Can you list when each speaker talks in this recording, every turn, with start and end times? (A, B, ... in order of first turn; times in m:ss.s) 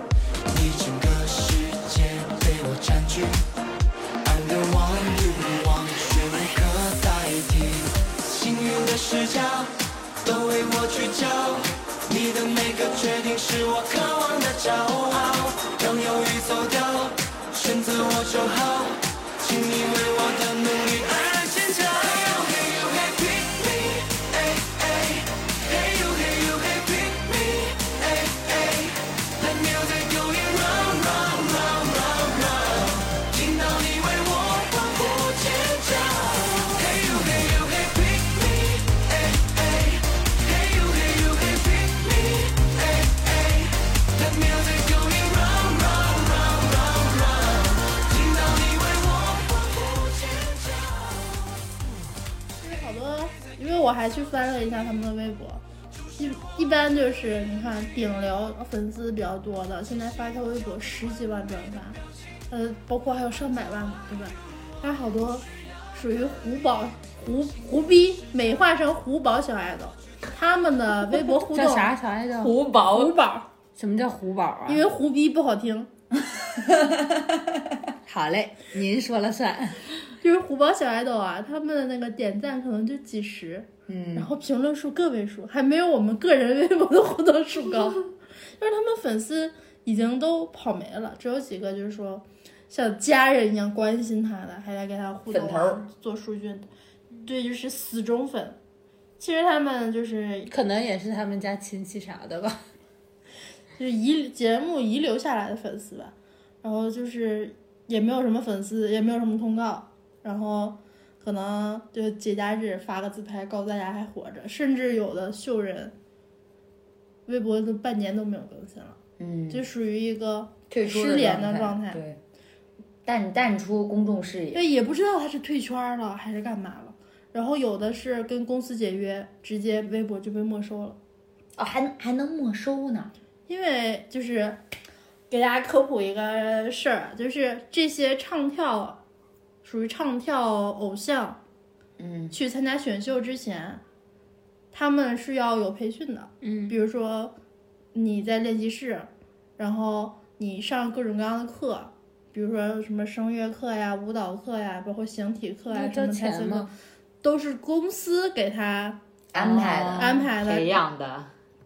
0:00.5-0:03.4 A
0:04.2-0:51.3 A
0:52.6-0:55.6 B
0:56.2-1:02.0 B
1:02.5-1:11.9 B
1:11.5-1:13.1 C
1:12.4-1:13.2 D
1:13.0-1:13.4 B
1:13.8-1:14.8 C
1:14.7-1:15.9 B
1:18.1-1:19.8 C
1:20.2-1:36.7 B
1:23.9-1:24.3 E
1:35.3-1:35.8 E
1:37.2-1:38.6 B
1:39.2-1:40.5 B
1:40.5-1:42.6 C
1:43.8-1:55.9 B
1:57.3-1:59.0 B
1:59.2-1:59.7 E
1:59.5-2:02.0 B
2:00.7-2:02.2 E
2:03.0-2:04.6 E
2:04.5-2:11.0 B
2:11.6-2:13.1 E
2:13.5-2:14.6 B
2:15.3-2:19.0 B
2:19.6-2:21.4 B
2:22.0-2:22.4 E
2:22.3-2:23.8 B
2:24.7-2:27.3 B
2:26.4-2:26.8 C
2:27.9-2:36.7 B
2:35.7-2:36.7 C
2:37.2-2:39.0 B
2:39.3-2:40.3 E
2:39.4-2:41.3 D
2:40.0-2:40.8 B